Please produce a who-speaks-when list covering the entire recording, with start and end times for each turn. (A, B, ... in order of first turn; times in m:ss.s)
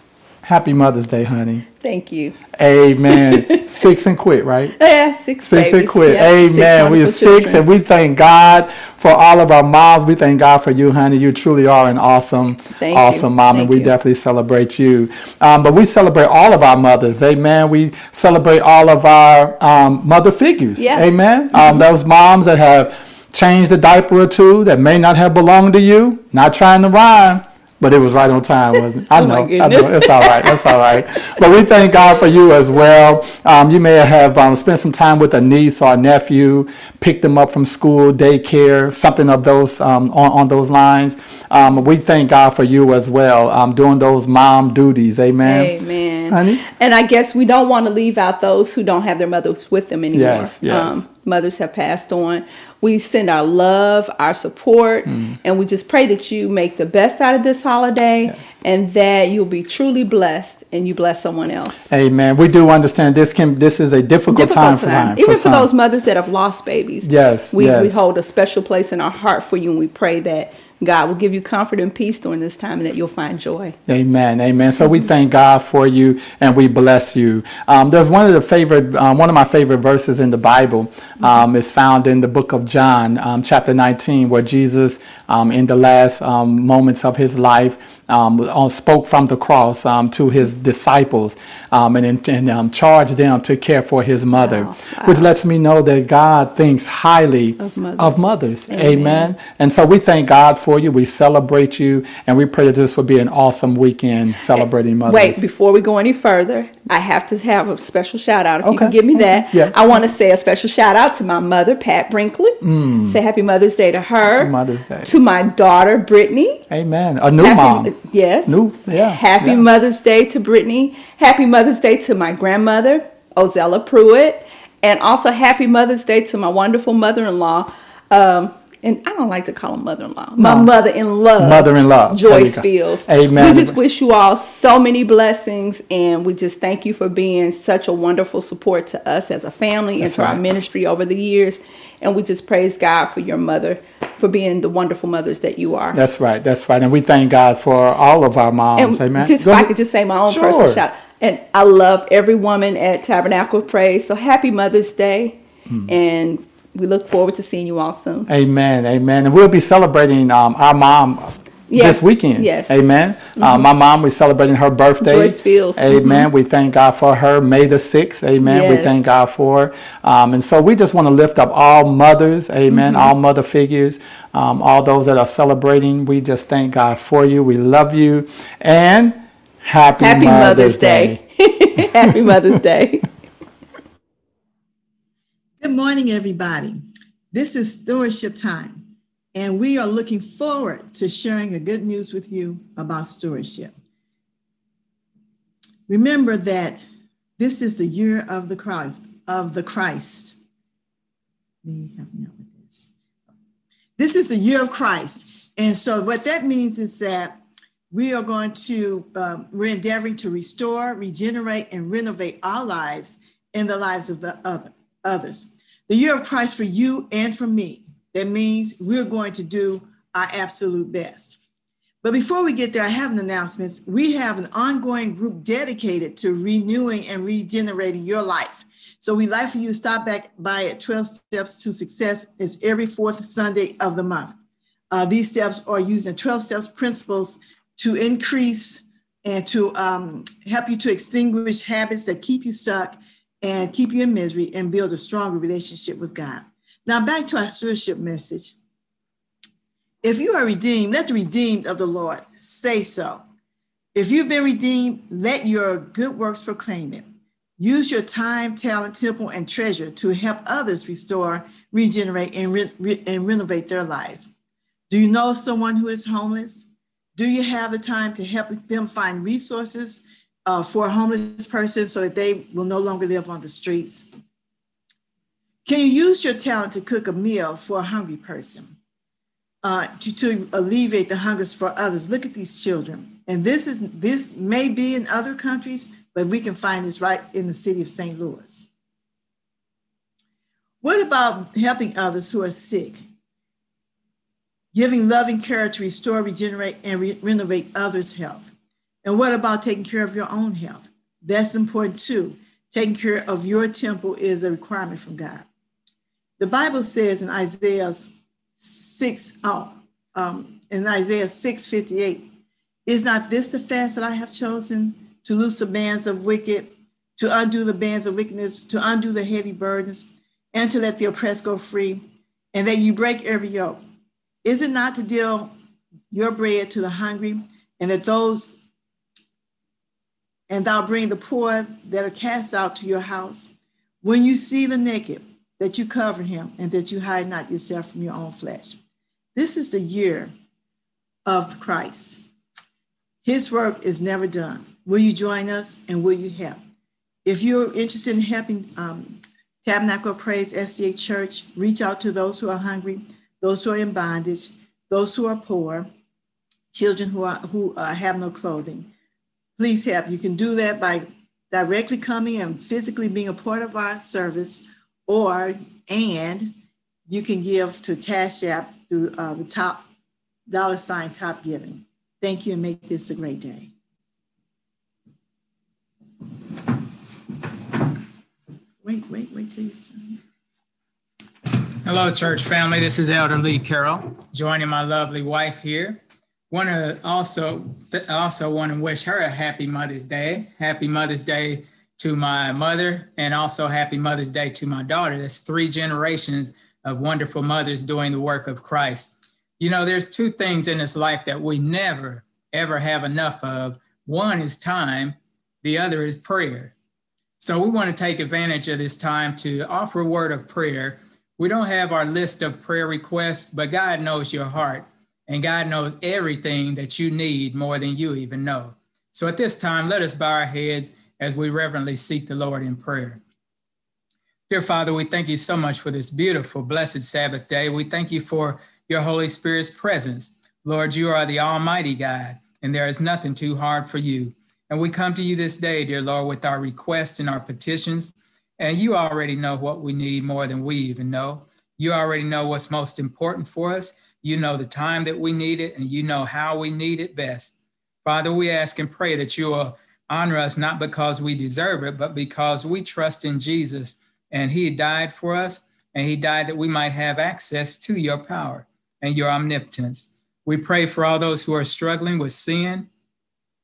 0:00.4-0:01.6 A
0:01.8-0:02.4 B
0:02.6-0:04.8 A
0:03.1-0:03.7 B
0:04.8-0:07.6 B
0:05.4-0:45.7 A
0:12.8-0:13.9 B
0:20.8-0:21.8 B
0:29.1-0:31.0 B
0:45.4-1:01.8 B
0:46.3-0:46.6 A
0:50.1-0:51.1 A
0:55.1-0:55.4 A
0:58.3-0:58.6 A
1:01.9-1:05.7 A
1:04.3-1:13.8 B
1:07.0-1:08.0 A
1:13.9-1:45.4 A
1:34.3-1:35.3 B
1:37.6-1:39.3 B
1:44.6-1:54.5 B
1:48.6-1:50.0 A
1:52.6-1:53.2 A
1:54.3-1:55.1 A
1:55.1-1:56.6 B
1:56.7-1:57.9 A
1:57.4-2:26.0 B
1:58.5-1:59.6 A
2:10.4-2:10.7 A
2:11.4-2:13.8 A
2:20.0-2:20.4 A
2:25.9-2:29.7 A
2:28.8-2:38.3 B
2:30.3-2:30.8 A
2:38.3-3:01.2 A
2:41.7-2:42.7 B
2:43.4-2:43.7 B
2:45.0-2:46.3 B
2:48.4-2:48.9 B
2:52.7-2:53.1 B
3:00.0-3:03.1 B
3:05.6-3:13.7 C
3:15.9-3:16.9 C
3:17.4-3:20.4 C
3:21.6-3:22.9 C
3:24.0-3:27.4 C
3:27.9-3:41.4 C
3:42.0-3:54.4 C
3:54.9-4:08.6 C
4:10.0-4:13.2 C
4:14.0-4:17.1 C
4:17.6-4:24.3 C
4:24.9-4:34.1 C
4:35.6-4:38.8 C
4:39.6-4:48.7 C
4:50.8-4:53.0 C
4:54.7-4:58.5 C
4:59.0-5:05.5 C
5:06.4-5:12.3 C
5:12.9-5:23.8 C
5:24.4-5:25.5 C
5:26.1-5:28.6 C
5:30.5-5:33.5 C
5:34.0-5:38.8 C
5:39.4-5:40.3 C
5:41.3-5:42.2 C
5:43.2-5:46.6 C
5:47.2-5:55.9 C
5:56.7-5:58.9 C
5:59.6-6:06.5 C
6:07.1-6:09.9 C
6:10.5-6:13.7 C
6:18.8-6:20.2 C
6:21.8-6:46.7 D
6:47.4-7:03.2 D
7:04.5-7:42.9 D